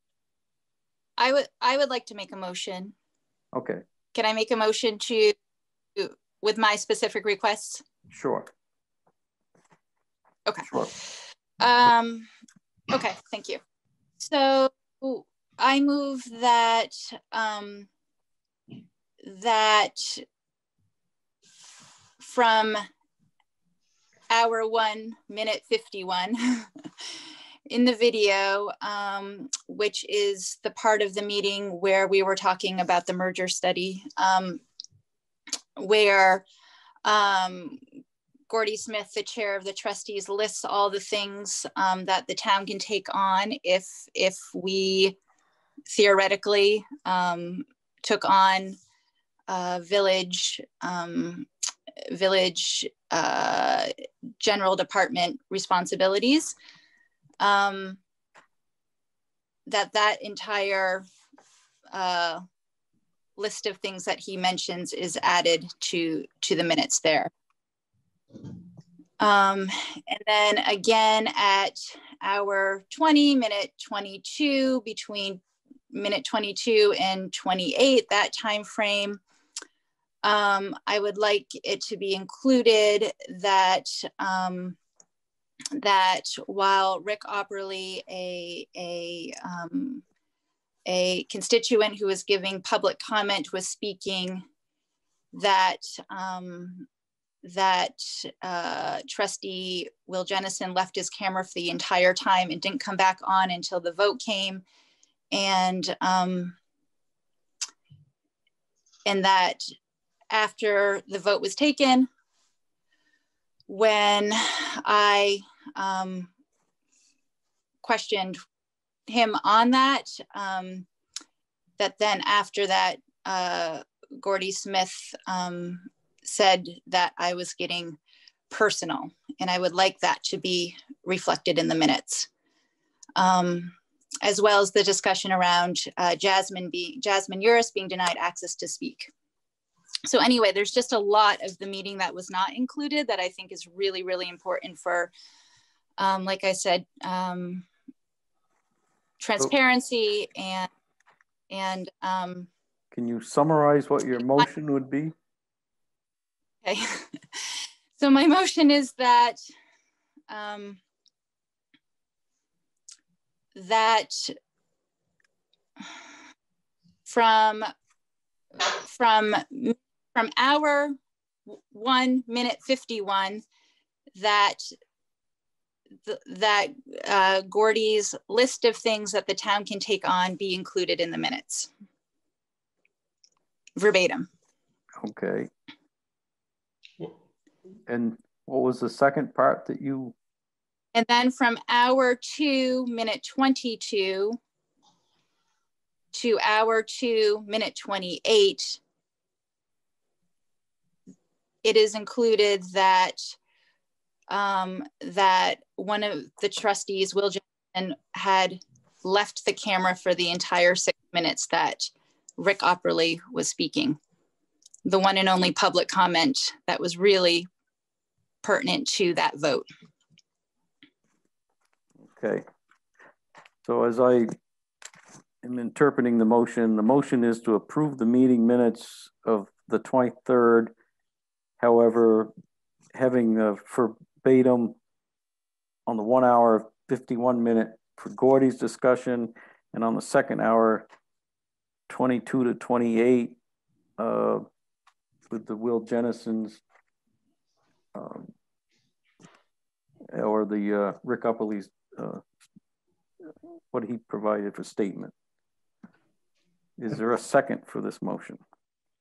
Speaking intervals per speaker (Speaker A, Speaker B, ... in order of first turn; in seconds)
Speaker A: 1.2-2.9, 4.1-5.3, 6.0-7.8, 10.4-10.8, 11.6-12.3, 12.9-13.6, 14.2-17.9, 19.2-20.2, 22.2-22.8, 24.3-26.7, 27.7-34.6, 35.8-36.4, 37.0-37.8, 38.5-45.1, 45.9-48.8, 49.5-51.5, 52.1-56.5, 57.4-58.0, 59.7-61.0, 61.9-62.4, 63.4-67.3, 69.2-79.2, 80.2-84.8, 85.8-90.0, 90.9-94.4, 95.3-96.9, 97.4-104.6, 105.3-106.5, 109.0-109.6, 110.3-112.1, 113.7-116.3, 117.8-118.4, 119.1-120.9, 121.8-128.0, 128.5-132.3, 133.2-139.1, 140.1-145.1, 146.0-147.7, 149.2-150.7, 151.5-152.5, 156.6-159.4, 160.3-160.8, 163.5-164.3, 167.1-167.7, 168.6-170.9, 171.5-173.4, 174.2-174.6, 176.1-181.7, 183.8-184.3, 190.9-194.4, 196.1-198.8, 201.6-203.3, 204.3-214.0, 214.8-217.5, 218.4-219.7
Speaker B: 3.5-3.8, 8.1-8.5, 10.7-10.9, 152.9-155.1, 185.0-185.5, 187.9-190.1, 222.1-222.4, 223.6-224.3, 225.4-230.7, 231.6-232.3, 232.9-234.7, 235.9-240.9, 241.9-243.4, 244.0-244.4, 245.3-246.6, 247.9-248.3, 250.1-252.2, 253.7-255.1, 256.8-258.4